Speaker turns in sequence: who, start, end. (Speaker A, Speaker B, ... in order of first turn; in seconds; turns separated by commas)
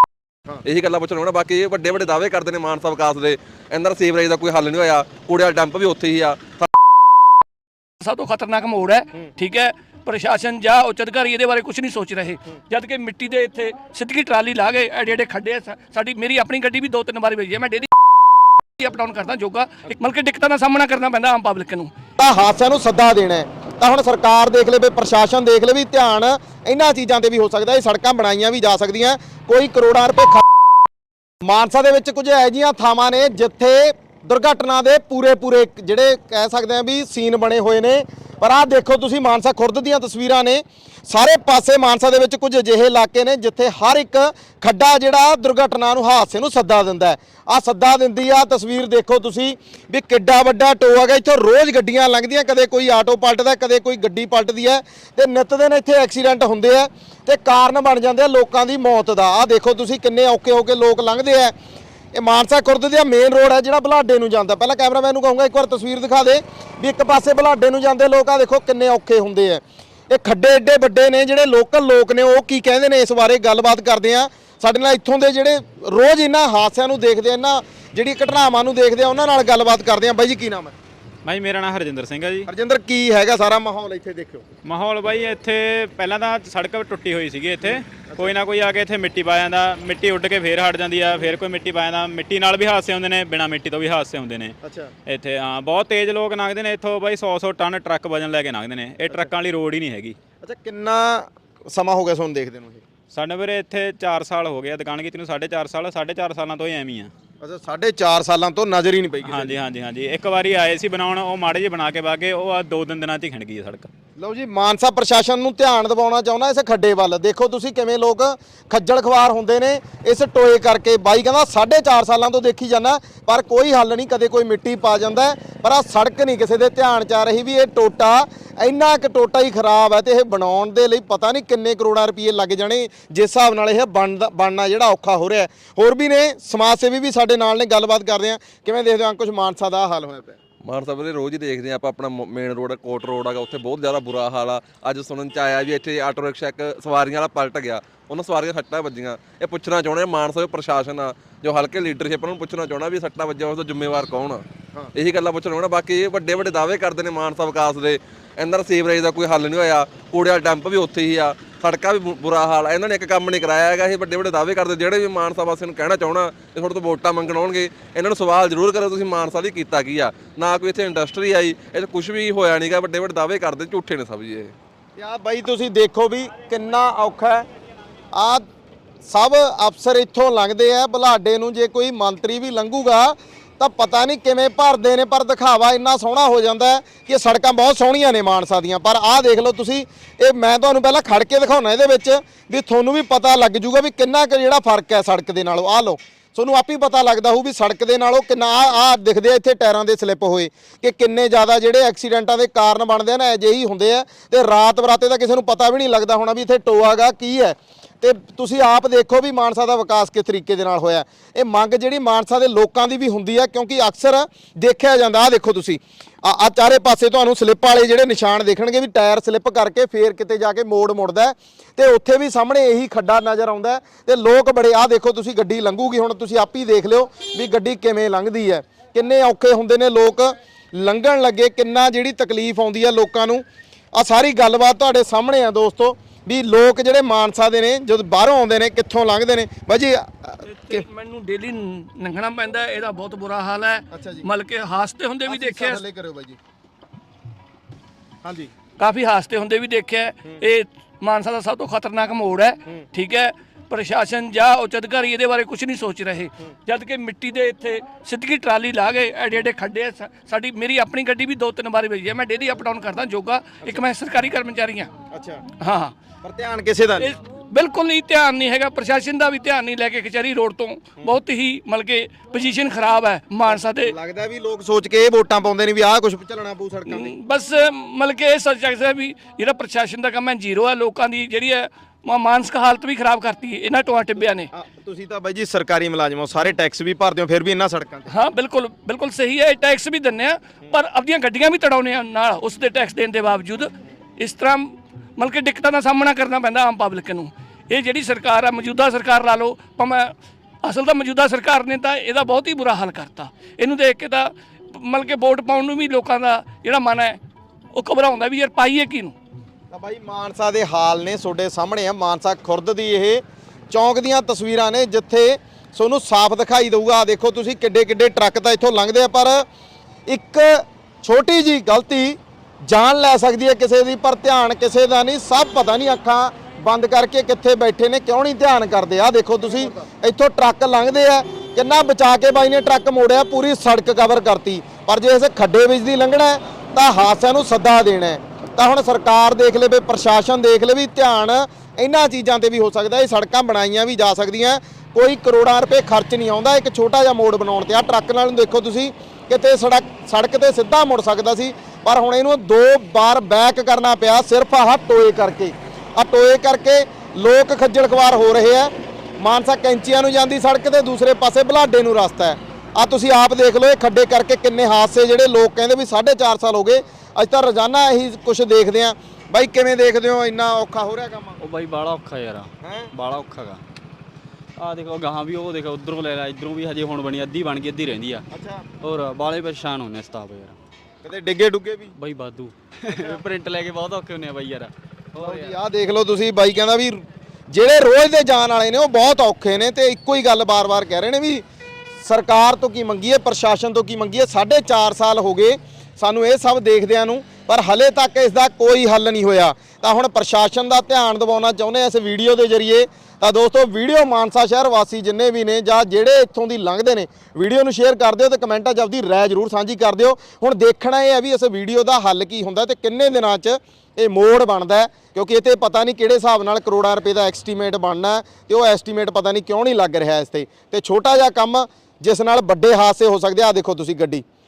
Speaker A: 0.6-6.7, Speaker B: 8.0-17.9, Speaker B: 18.8-21.9, Speaker C: 22.2-30.4, Speaker C: 31.4-61.5, Speaker C: 62.1-80.7, Speaker D: 81.2-82.5, Speaker C: 82.5-84.4, Speaker D: 84.6-100.2, Speaker C: 88.1-88.3, Speaker C: 94.6-94.9, Speaker C: 100.4-102.8, Speaker D: 103.1-107.1, Speaker C: 107.4-109.5, Speaker D: 109.2-113.9, Speaker C: 114.2-140.4, Speaker A: 140.6-174.5, Speaker C: 175.0-177.4, Speaker C: 178.1-178.4, Speaker C: 179.0-240.8, Speaker B: 240.5-245.8, Speaker C: 243.9-244.3, Speaker C: 245.3-246.4, Speaker C: 248.2-248.5, Speaker B: 248.8-264.9, Speaker C: 265.1-265.4, Speaker B: 265.6-265.9, Speaker C: 266.2-267.1, Speaker B: 267.0-273.9, Speaker C: 273.5-277.1, Speaker B: 276.9-284.5, Speaker C: 284.5-288.1, Speaker B: 288.1-300.1, Speaker B: 300.6-307.2, Speaker B: 307.7-309.1, Speaker C: 309.7-319.4, Speaker C: 320.1-371.4, Speaker E: 371.6-372.5, Speaker C: 372.6-372.9, Speaker E: 373.0-373.5, Speaker E: 374.6-378.1, Speaker C: 378.3-378.7, Speaker E: 378.8-380.3, Speaker C: 381.0-381.9, Speaker E: 382.0-382.5, Speaker E: 383.2-384.7, Speaker C: 385.1-391.4, Speaker C: 392.0-424.2